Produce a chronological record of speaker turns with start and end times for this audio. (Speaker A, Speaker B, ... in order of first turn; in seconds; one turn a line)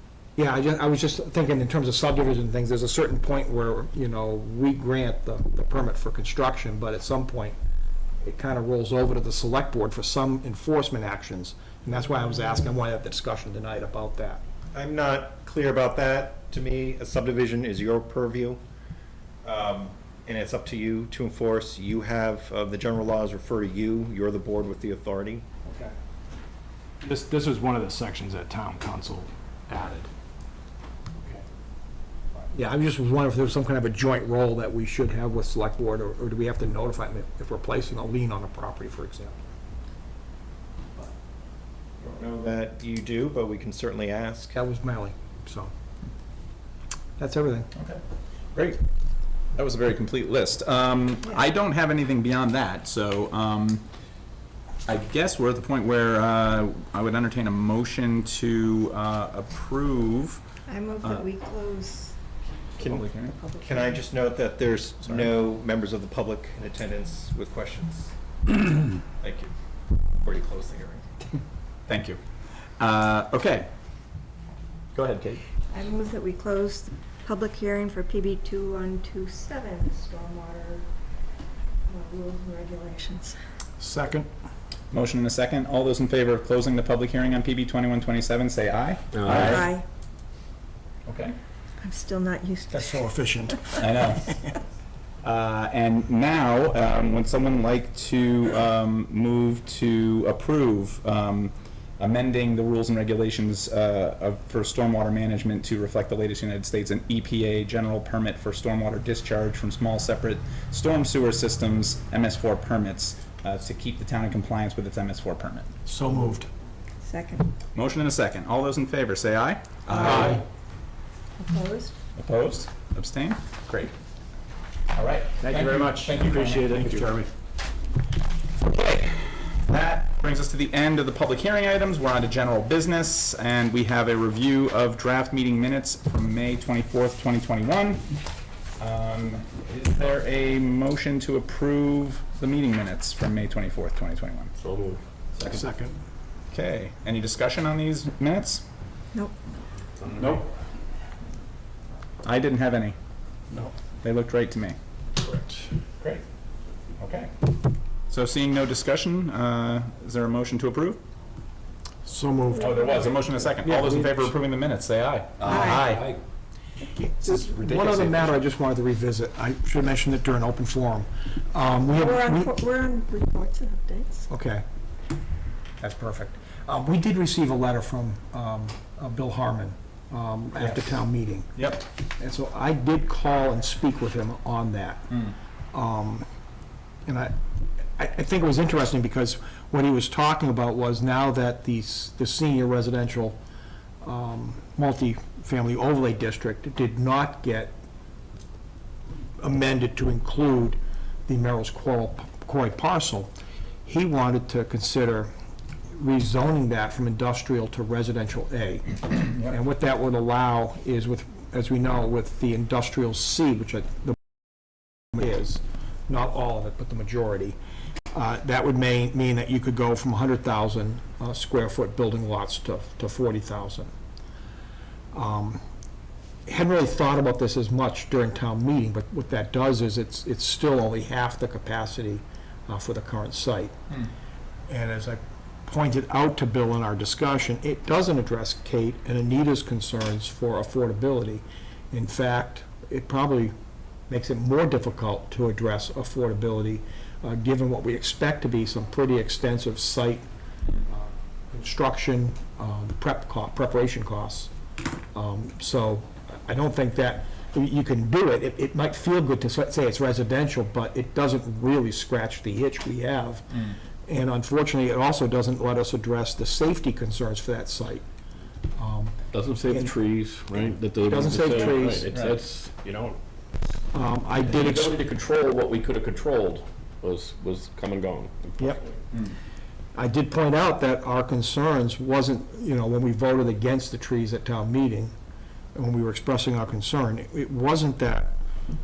Speaker A: 0.4-7.6
Speaker A: 8.2-14.4
Speaker B: 14.7-18.6
Speaker B: 19.4-25.4
Speaker C: 27.0-30.1
Speaker A: 32.5-39.4
Speaker B: 42.0-44.6
Speaker A: 44.5-45.7
Speaker A: 47.2-47.7
Speaker D: 47.8-48.0
Speaker D: 48.5-48.8
Speaker D: 49.5-53.9
Speaker D: 54.9-60.4
Speaker E: 60.7-62.2
Speaker D: 62.8-63.3
Speaker E: 63.2-64.0
Speaker B: 63.6-68.1
Speaker B: 69.2-69.5
Speaker B: 70.2-71.1
Speaker D: 71.9-72.2
Speaker D: 72.8-73.7
Speaker D: 74.9-75.4
Speaker E: 75.7-80.9
Speaker E: 81.9-83.4
Speaker A: 83.8-84.3
Speaker D: 84.9-89.7
Speaker F: 89.1-89.5
Speaker E: 89.4-89.8
Speaker D: 91.1-91.4
Speaker E: 91.8-93.0
Speaker A: 92.7-94.5
Speaker D: 93.8-94.3
Speaker D: 95.2-115.7
Speaker A: 115.9-116.5
Speaker E: 117.0-117.5
Speaker D: 117.7-120.4
Speaker E: 119.9-120.3
Speaker A: 120.0-120.4
Speaker E: 121.4-122.0
Speaker D: 122.2-123.9
Speaker D: 124.9-127.1
Speaker C: 125.4-127.3
Speaker D: 128.7-138.1
Speaker D: 138.8-144.5
Speaker D: 145.3-145.6
Speaker A: 145.4-146.0
Speaker D: 146.5-148.6
Speaker D: 152.2-153.0
Speaker D: 154.0-154.8
Speaker D: 157.0-157.3
Speaker D: 158.1-161.0
Speaker A: 162.0-162.8
Speaker D: 162.6-166.2
Speaker A: 163.6-164.3
Speaker E: 165.4-166.0
Speaker A: 165.4-165.8
Speaker A: 166.9-172.5
Speaker D: 167.2-168.3
Speaker E: 171.9-174.3
Speaker A: 174.3-174.6
Speaker A: 175.8-181.6
Speaker D: 180.6-181.0
Speaker D: 181.6-181.8
Speaker A: 182.2-185.2
Speaker A: 185.7-186.2
Speaker A: 187.1-187.3
Speaker A: 188.0-193.4
Speaker A: 194.0-197.8
Speaker A: 199.4-203.3
Speaker A: 203.8-205.3
Speaker A: 206.0-214.2
Speaker A: 215.1-217.6
Speaker A: 218.1-223.9
Speaker A: 225.1-225.6
Speaker A: 226.5-233.8
Speaker A: 234.7-243.5
Speaker A: 244.1-250.3
Speaker A: 250.8-254.5
Speaker A: 255.1-268.1
Speaker A: 268.8-269.2
Speaker F: 269.3-273.2
Speaker A: 271.1-272.1
Speaker D: 272.1-272.4
Speaker A: 273.9-275.0
Speaker F: 274.5-278.9
Speaker A: 279.9-285.1
Speaker A: 285.7-288.4